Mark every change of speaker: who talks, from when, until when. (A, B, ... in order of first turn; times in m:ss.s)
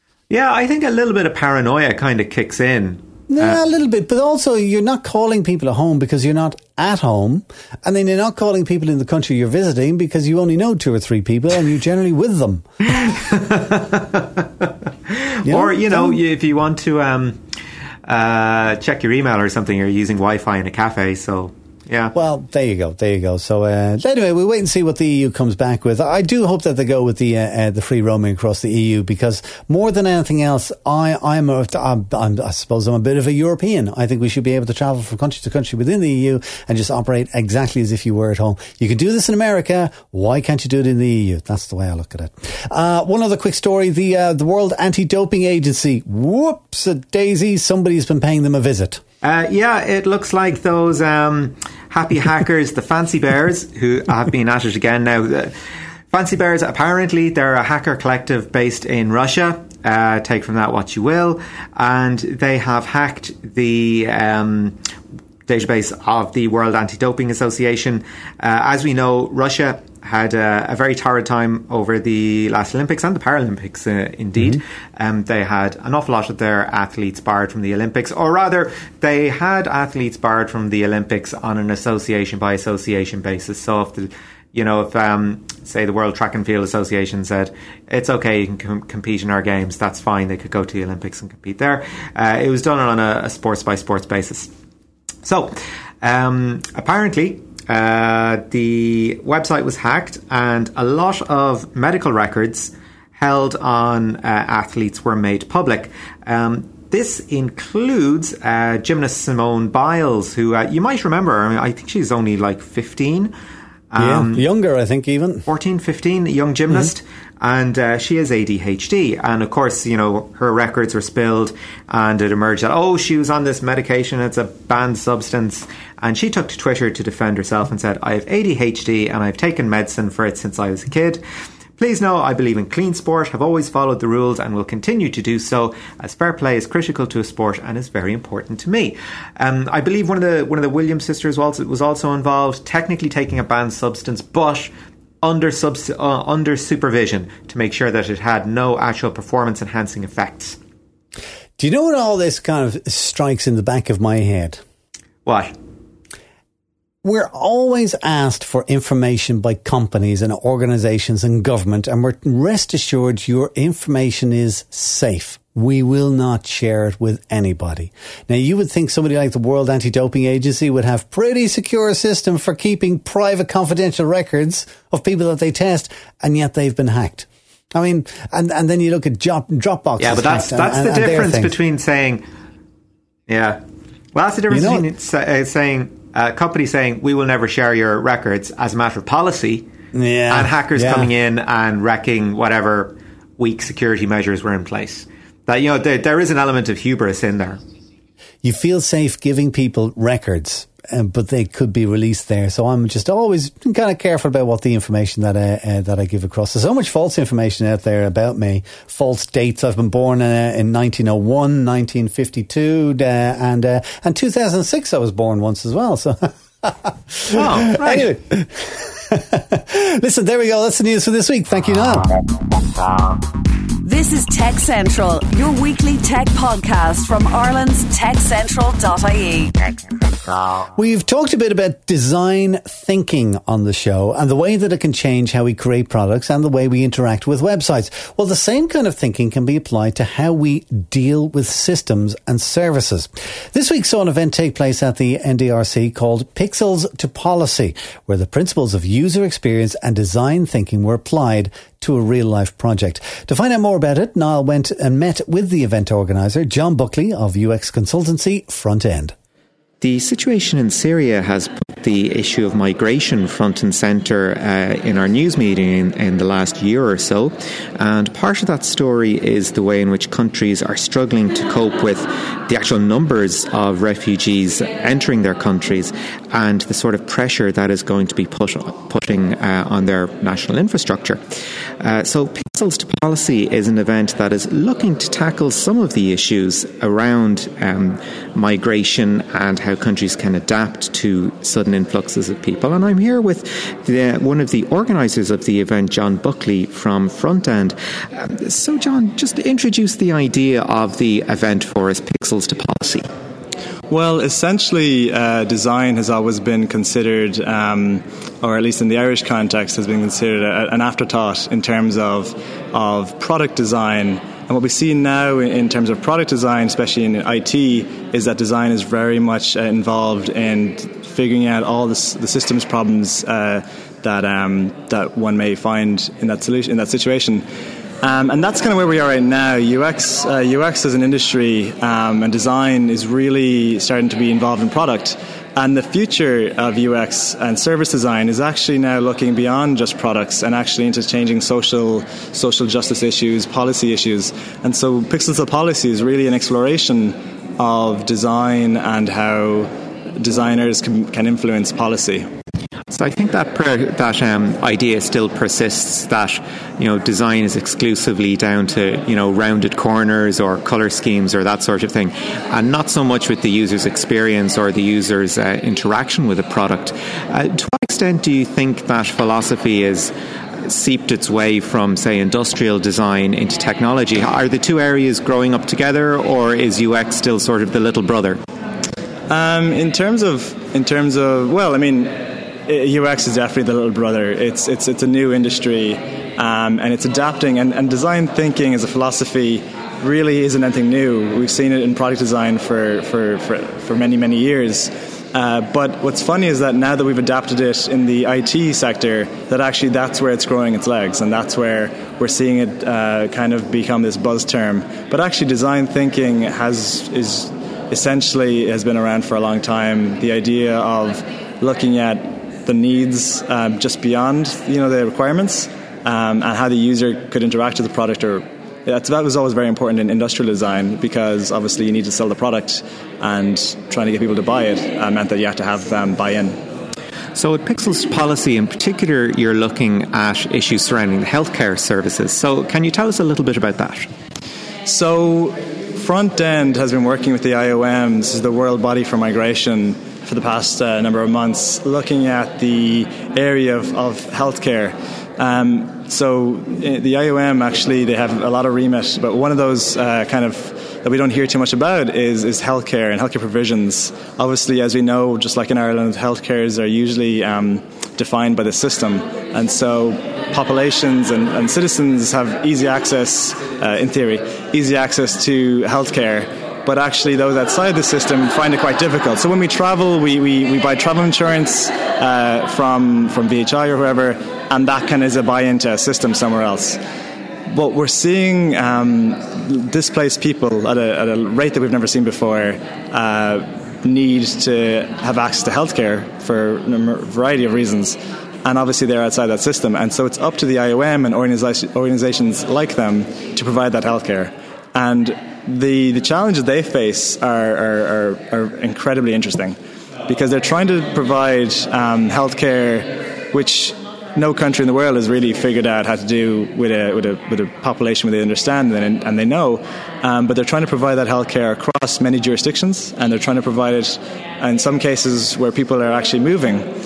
0:00.3-0:03.6 A
0:03.3-0:12.7 B
0:13.0-0:17.4 A
0:15.4-0:16.1 B
0:18.0-0:22.2 A
0:22.2-0:49.0 B
0:49.2-0:55.6 A
0:56.1-1:04.8 A
1:05.5-1:34.5 A
1:35.2-1:53.3 A
1:53.9-1:54.4 A
1:54.0-1:55.5 B
1:55.5-2:11.2 A
2:11.8-2:24.7 A
2:25.2-2:30.6 A
2:31.6-2:34.6 B
2:35.3-2:35.6 A
2:37.0-3:01.5 B
3:00.0-3:02.2 A
3:03.3-3:03.6 A
3:04.1-3:09.7 A
3:04.5-3:04.8 B
3:09.9-3:11.1 B
3:10.3-3:17.6 A
3:18.4-3:42.1 B
3:37.3-3:38.1 A
3:43.8-3:49.6 C
3:50.7-4:19.1 B
4:19.8-4:41.2 A
4:41.8-5:03.1 A
5:03.9-5:27.4 D
5:28.0-5:52.3 D
5:52.9-6:10.1 A
6:10.6-6:18.4 A
6:19.3-7:06.6 D
7:07.4-7:14.1 A
7:14.9-7:57.0 D
7:57.7-8:36.9 D